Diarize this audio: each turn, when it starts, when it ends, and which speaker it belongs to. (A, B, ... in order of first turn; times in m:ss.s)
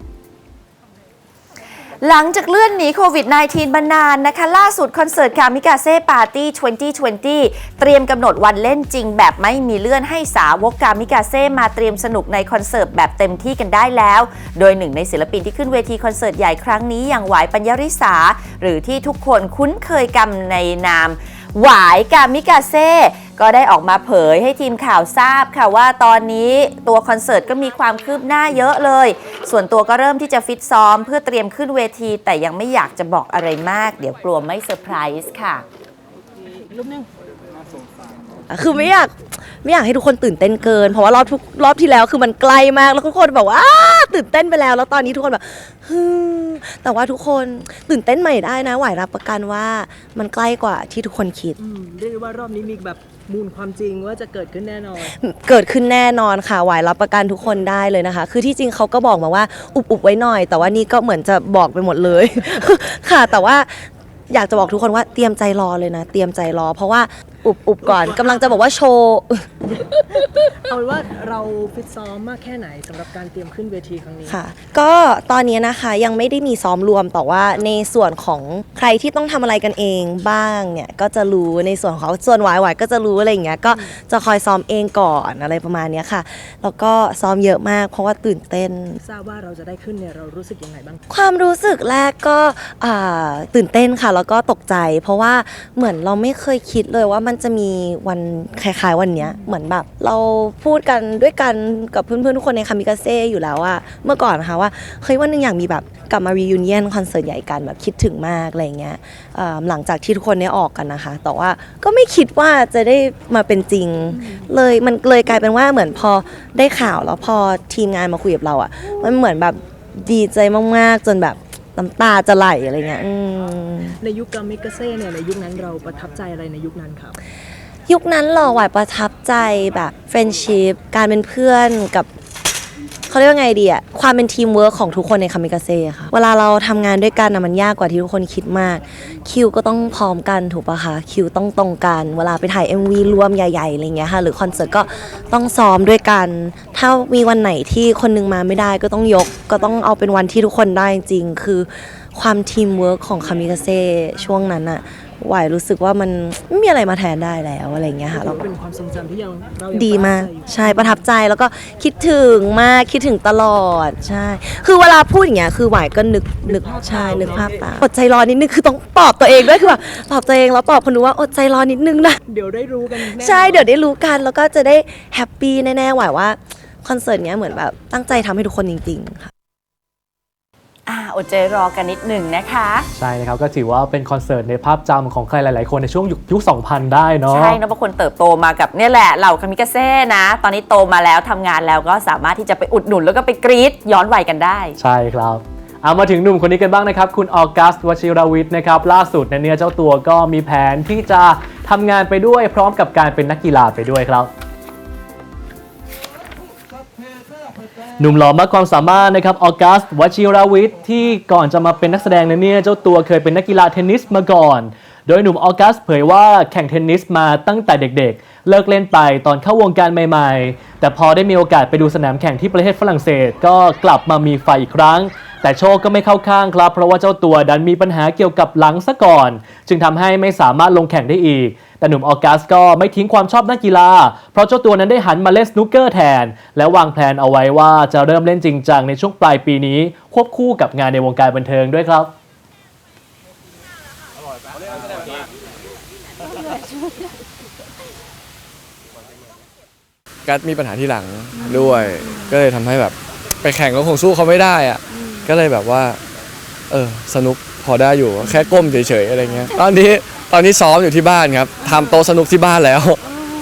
0:02.0-0:35.6 A
0:36.7-0:37.0 B
0:38.5-0:51.6 C
0:51.6-0:55.2 B
0:55.1-1:09.5 C
1:07.8-1:08.6 B
1:09.7-1:14.4 B
1:14.3-1:29.0 C
1:23.7-1:24.0 B
1:29.0-1:31.0 B
1:31.1-2:03.9 C
1:39.2-1:39.5 B
1:54.1-1:54.4 B
2:04.0-2:07.2 B
2:07.9-2:12.1 C
2:13.1-2:38.4 C
2:38.1-2:41.0 B
2:39.7-2:52.2 C
2:46.4-2:47.6 B
2:52.3-2:53.7 B
2:53.0-2:59.3 C
3:00.9-3:02.9 A
3:02.9-3:07.6 D
3:07.3-3:14.8 A
3:14.8-3:24.3 D
3:28.0-4:02.1 D
4:10.2-4:16.0 E
4:16.7-4:23.0 E